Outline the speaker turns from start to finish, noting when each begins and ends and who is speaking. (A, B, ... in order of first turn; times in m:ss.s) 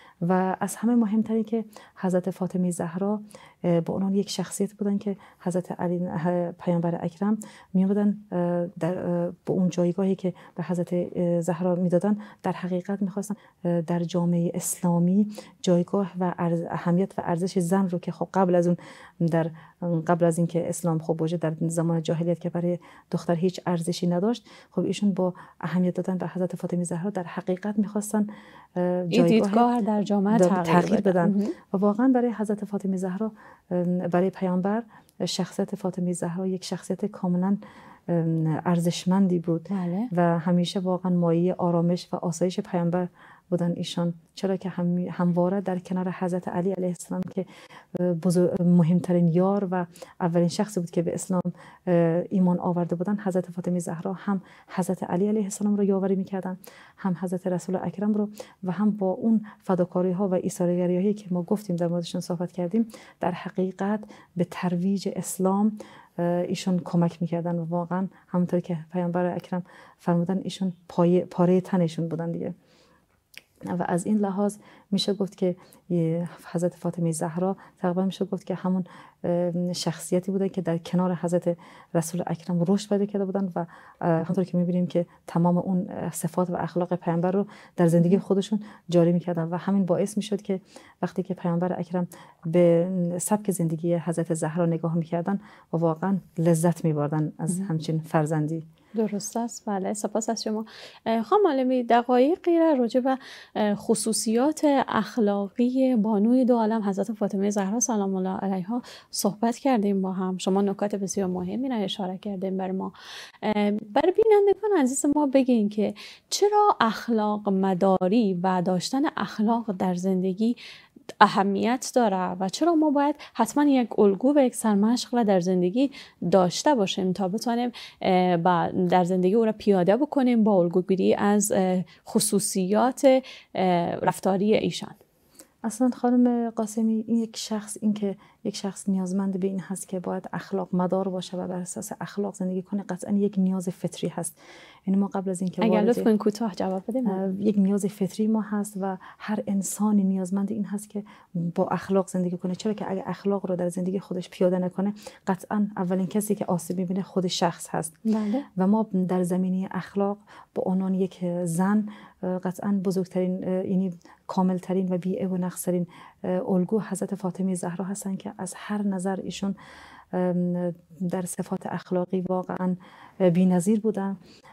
0:00.2-0:29.7 A
0:29.1-0:31.6 B
0:30.3-1:12.5 A
0:39.7-0:40.1 B
1:13.7-1:38.6 A
1:39.0-2:00.6 B
2:01.2-2:15.0 B
2:15.6-2:24.4 A
2:24.9-2:26.1 A
2:25.6-2:27.2 B
2:27.1-2:38.0 A
2:38.1-2:38.5 B
2:38.6-2:49.6 A
2:50.1-2:54.2 A